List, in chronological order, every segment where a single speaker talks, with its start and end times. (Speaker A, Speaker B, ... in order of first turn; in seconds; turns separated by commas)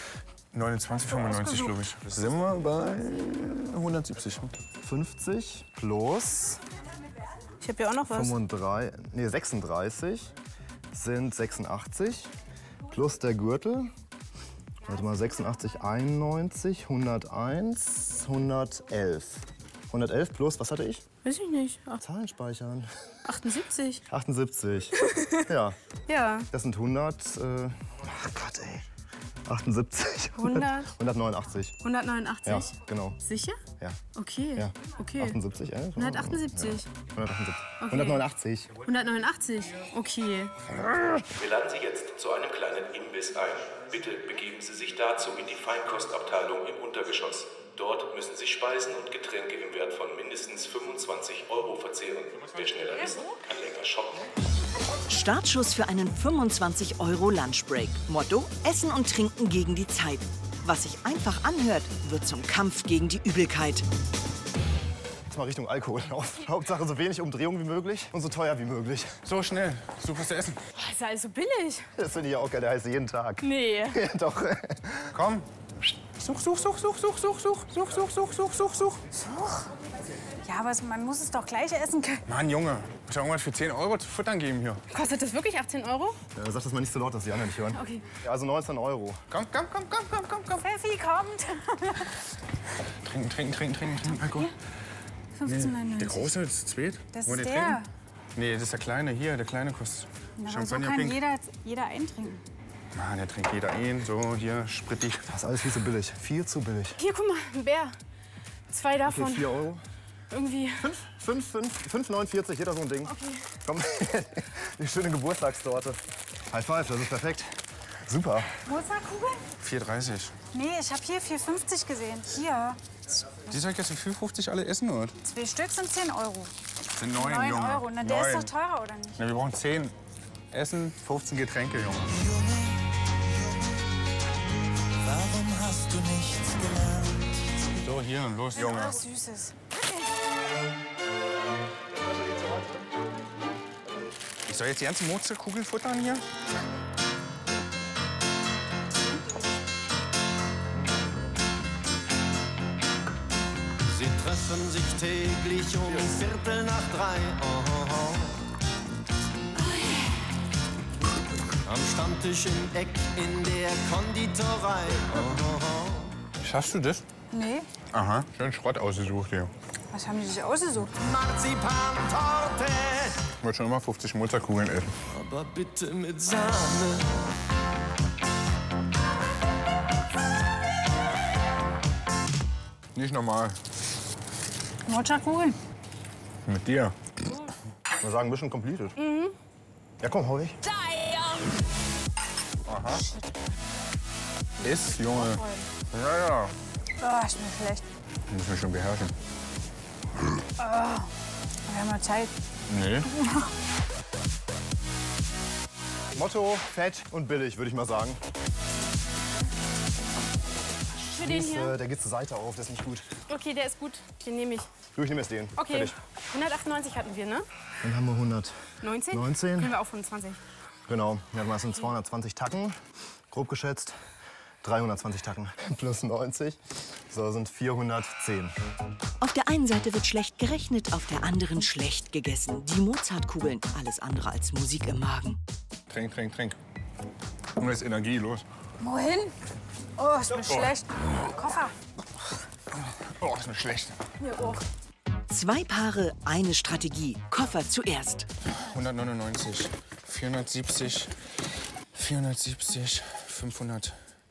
Speaker A: 0.5-4.6, Speaker B: 1.1-1.8, Speaker C: 4.8-6.6, Speaker D: 7.6-8.3, Speaker C: 8.1-10.3, Speaker C: 10.9-12.3, Speaker C: 12.9-13.9, Speaker C: 14.9-21.0, Speaker D: 21.2-22.0, Speaker C: 22.0-22.9, Speaker D: 23.2-24.0, Speaker C: 24.1-25.8, Speaker D: 25.0-25.4, Speaker D: 26.1-26.5, Speaker C: 26.5-28.9, Speaker C: 29.5-31.8, Speaker D: 30.4-30.9, Speaker D: 31.8-32.7, Speaker C: 32.5-33.2, Speaker D: 33.2-33.6, Speaker D: 34.1-35.4, Speaker C: 34.5-38.8, Speaker D: 36.0-36.9, Speaker D: 37.8-38.2, Speaker D: 38.9-40.5, Speaker E: 41.4-54.3, Speaker A: 52.4-53.2, Speaker F: 55.1-63.9, Speaker C: 65.3-69.2, Speaker A: 69.2-70.6, Speaker D: 70.8-71.9, Speaker C: 72.0-75.2, Speaker D: 73.4-74.0, Speaker A: 75.1-75.5, Speaker A: 76.2-79.0, Speaker B: 79.2-79.7, Speaker B: 80.5-82.2, Speaker A: 82.3-84.8, Speaker D: 84.9-86.2, Speaker C: 86.3-89.2, Speaker D: 87.7-88.0, Speaker A: 89.3-90.7, Speaker B: 90.6-92.1, Speaker A: 93.0-94.5, Speaker B: 94.1-94.5, Speaker B: 95.4-96.3, Speaker A: 95.4-97.8, Speaker B: 97.1-97.9, Speaker A: 98.3-101.2, Speaker B: 100.4-102.4, Speaker A: 103.0-105.3, Speaker C: 105.3-107.0, Speaker D: 107.0-108.0, Speaker D: 108.7-109.5, Speaker C: 109.1-109.8, Speaker D: 110.3-110.8, Speaker C: 110.8-118.5, Speaker D: 113.1-113.5, Speaker B: 118.7-119.4, Speaker A: 119.6-120.3, Speaker B: 120.5-122.8, Speaker A: 123.5-125.2, Speaker B: 125.2-126.5, Speaker A: 127.0-128.5, Speaker B: 127.1-129.2, Speaker A: 129.2-129.9, Speaker A: 130.5-132.3, Speaker A: 135.2-136.4, Speaker A: 137.7-139.1, Speaker B: 138.5-140.1, Speaker A: 144.5-146.2, Speaker G: 153.8-158.4, Speaker G: 161.7-166.1, Speaker A: 166.4-167.1, Speaker B: 167.3-167.7, Speaker A: 167.9-169.5, Speaker B: 169.9-170.9, Speaker G: 171.0-173.2, Speaker A: 173.4-174.9, Speaker G: 175.1-177.2, Speaker A: 182.9-183.6, Speaker B: 184.9-185.6, Speaker A: 186.5-186.9, Speaker C: 188.0-189.0, Speaker D: 189.0-189.3, Speaker C: 190.0-190.6, Speaker A: 192.7-193.1, Speaker B: 192.9-193.3, Speaker A: 194.6-196.6, Speaker D: 195.1-195.7, Speaker B: 197.0-197.8, Speaker A: 198.3-199.1, Speaker B: 200.6-201.1, Speaker B: 201.7-202.3, Speaker A: 202.7-203.1, Speaker B: 203.1-203.5, Speaker C: 206.2-208.2, Speaker D: 211.0-211.8, Speaker C: 211.2-213.1, Speaker D: 213.3-214.7, Speaker C: 214.9-216.0, Speaker D: 215.6-217.5, Speaker C: 217.8-219.8, Speaker D: 218.8-220.4, Speaker C: 220.9-222.8, Speaker C: 223.3-224.0, Speaker C: 224.6-228.5, Speaker F: 229.2-235.4, Speaker A: 235.9-236.6, Speaker A: 237.6-238.4, Speaker B: 238.8-239.3, Speaker B: 240.0-241.8, Speaker A: 240.5-240.7, Speaker A: 242.7-244.0, Speaker D: 244.2-244.6, Speaker F: 245.3-248.3, Speaker A: 248.5-251.2, Speaker A: 251.9-254.0